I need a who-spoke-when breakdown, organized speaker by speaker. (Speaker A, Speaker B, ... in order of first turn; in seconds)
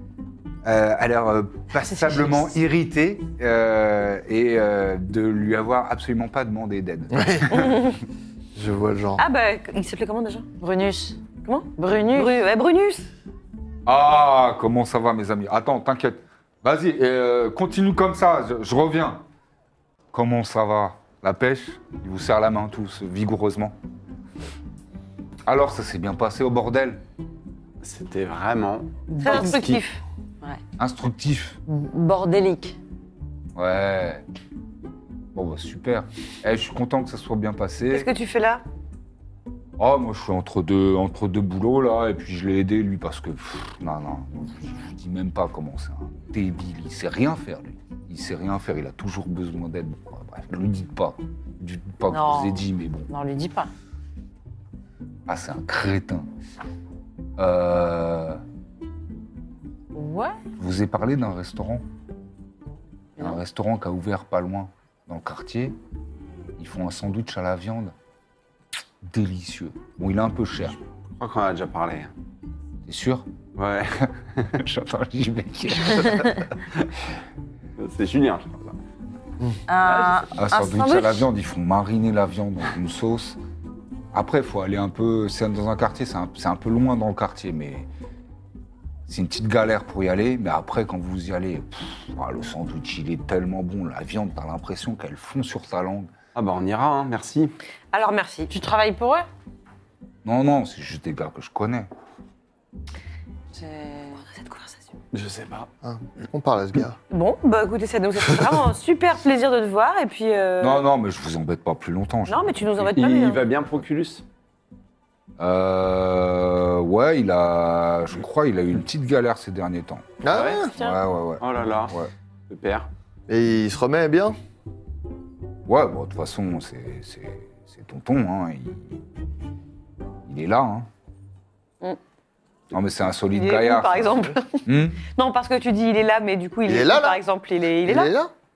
Speaker A: 0.6-7.7, 13.8-19.2, 20.1-23.8, 25.4-27.0, 30.8-31.6, 33.5-34.2, 35.3-38.1, 39.8-53.1, 55.3-56.3, 57.4-58.4, 60.6-61.8, 63.2-65.8, 66.6-67.9, 69.0-70.8, 72.8-73.3, 74.4-76.5, 80.3-83.4, 84.1-87.9, 89.1-96.1, 100.2-101.9, 110.6-113.0, 115.4-120.2, 120.7-122.1, 125.7-129.0, 130.2-130.9, 132.7-135.0
Speaker B: 7.1-7.8, 8.5-9.2, 105.8-107.0, 120.2-120.7, 123.3-124.4, 136.7-137.2, 137.8-138.3
Speaker C: 7.5-8.0, 9.2-10.5, 11.4-13.1, 29.2-30.0, 37.9-38.6, 97.9-98.5, 104.2-105.0, 107.1-110.8, 112.3-113.5, 133.3-138.1
Speaker D: 10.6-11.2, 11.8-12.4, 29.1-29.6, 31.7-32.8, 52.1-53.7, 59.9-60.4, 79.7-81.3, 98.5-99.3, 103.5-104.2
Speaker E: 27.8-29.8, 71.2-72.1, 73.5-74.5, 77.8-78.7, 79.9-80.2, 96.3-97.5, 105.1-105.7, 112.9-114.2, 120.3-120.7, 121.4-121.9, 122.5-122.9